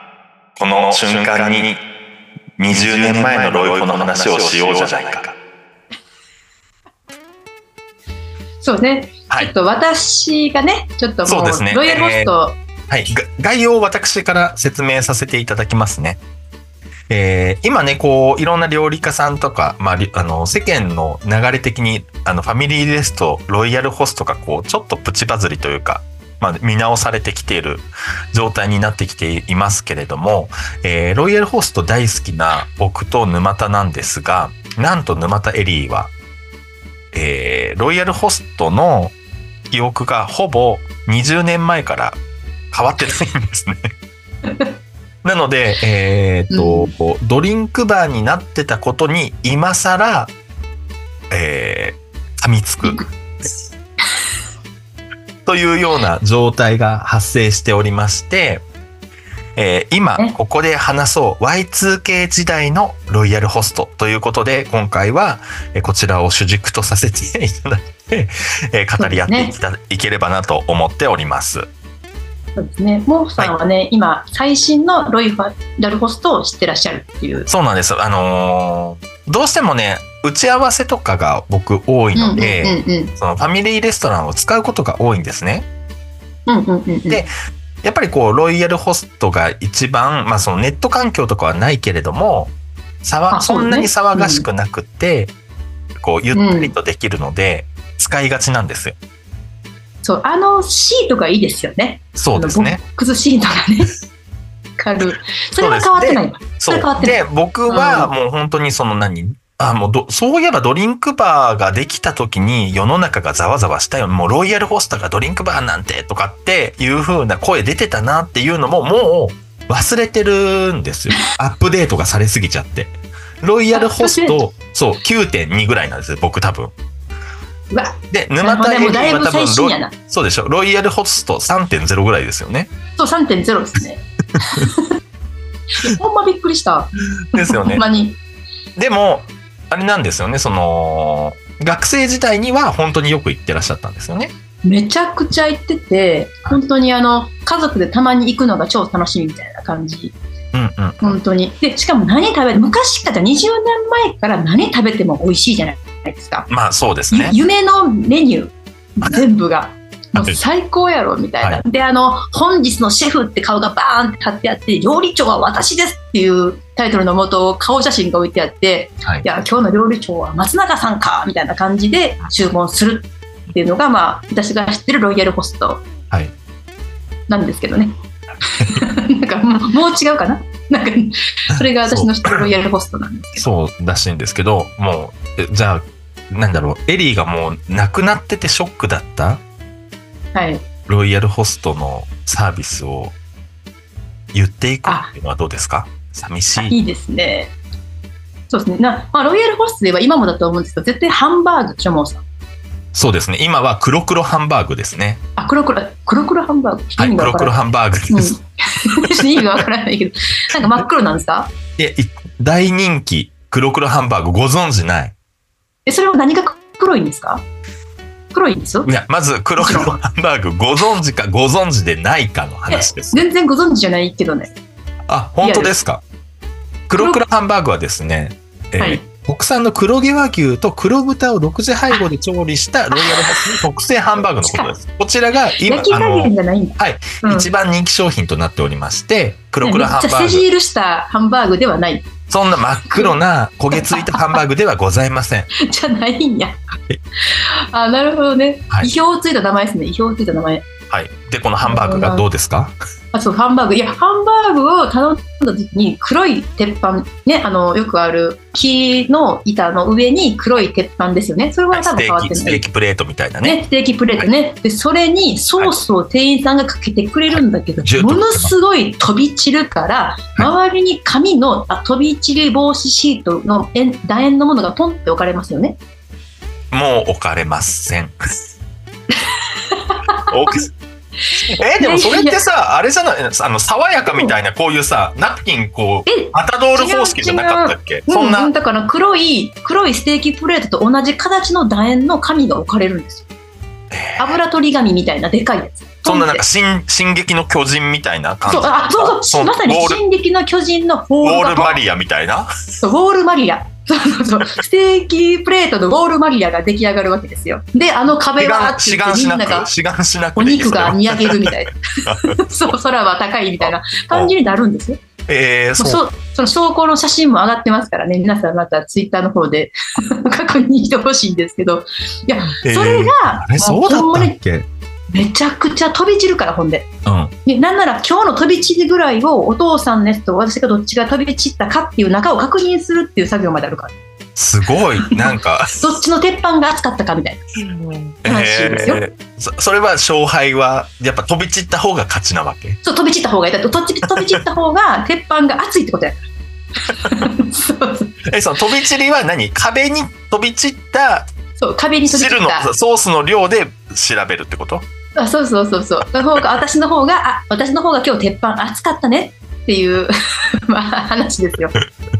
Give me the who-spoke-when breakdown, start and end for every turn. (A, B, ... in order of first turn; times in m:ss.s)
0:00.6-0:01.8 A
0:02.6-0:05.4 A
0:08.6-0:12.6 B
0:11.2-0:12.3 A
0:12.9-0:16.2 A
0:17.1-0:36.1 A
0:37.1-0:39.1 A
0:39.7-0:42.2 A
0:42.7-0:43.9 A
0:45.2-0:50.3 A
0:46.5-0:46.9 B
0:51.3-0:53.0 A
0:55.4-0:58.6 A
0:59.6-1:11.7 A
1:09.0-1:09.5 B
1:12.6-1:17.5 B
1:17.5-1:25.7 A
1:22.2-1:23.1 B
1:26.5-1:27.2 B
1:27.8-1:35.3 A
1:33.3-1:34.4 B
1:36.0-1:39.0 A
1:36.3-1:36.7 B
1:40.0-1:43.9 B
1:42.2-1:42.8 A
1:44.8-1:48.1 B
1:45.6-2:06.7 A
2:03.7-2:04.4 B
2:07.7-2:09.9 B
2:08.1-2:12.7 A
2:13.0-2:14.9 B
2:15.8-2:18.2 B
2:17.3-2:17.8 A
2:18.8-2:24.3 A
2:24.6-2:30.2 B
2:30.5-2:31.2 A
2:31.0-2:36.5 B
2:36.5-2:37.4 A
2:37.1-2:55.8 B
2:57.3-2:57.9 B
2:58.5-3:03.5 B
3:01.8-3:02.5 A
3:03.4-3:09.4 A
3:10.3-3:10.6 B
3:10.9-3:13.1 A
3:14.3-3:16.8 A
3:14.8-3:15.1 B
3:16.6-3:17.5 B
3:18.5-3:22.2 B
3:22.9-3:25.2 A
3:25.4-3:27.6 B
3:27.0-3:28.3 A
3:28.1-3:31.5 B
3:29.0-3:29.6 A
3:31.8-3:35.1 A
3:35.8-3:37.4 B
3:38.3-3:38.9 B
3:38.8-3:43.2 A
3:39.6-3:39.9 B
3:42.7-3:44.5 B
3:45.1-3:46.0 A
3:45.4-3:45.7 B
3:46.9-4:00.4 A
3:46.9-3:47.2 B
3:48.8-3:49.0 B
3:52.9-3:53.5 B
3:54.4-3:54.7 B
3:55.6-3:57.5 B
3:59.6-4:02.1 B
4:02.3-4:05.5 A
4:02.8-4:03.2 B
4:03.7-4:04.2 B
4:05.6-4:06.6 B
4:07.2-4:10.6 B
4:10.9-4:12.7 A
4:11.6-4:12.2 B
4:13.1-4:22.6 B
4:21.7-4:23.6 A
4:23.4-4:35.8 B
4:27.3-4:28.5 A
4:36.7-4:38.1 A
4:39.7-4:40.2 B
4:40.3-4:40.7 A
4:41.4-4:48.5 A
4:41.8-4:42.4 B
4:44.0-4:44.3 B
4:46.1-4:53.3 B
4:53.9-4:54.4 A
4:54.2-4:56.4 B
4:56.0-5:00.0 A
4:58.5-5:01.8 B
5:01.2-5:02.5 A
5:02.8-5:09.7 B
5:08.4-5:11.5 A
5:10.4-5:15.0 B
5:12.0-5:12.4 A
5:13.6-5:14.3 A
5:15.3-5:16.0 A
5:15.8-5:24.4 B
5:22.6-5:24.7 A
5:25.1-5:26.9 B
5:27.0-5:27.3 A
5:27.4-5:33.9 B
5:34.4-5:35.8 A
5:35.0-5:37.4 B
5:37.6-5:42.8 A
5:38.2-5:39.0 B
5:42.8-5:46.2 B
5:46.9-5:48.2 B
5:48.2-5:51.3 A
5:51.6-5:52.7 B
5:52.1-5:54.8 A
5:55.2-6:01.8 B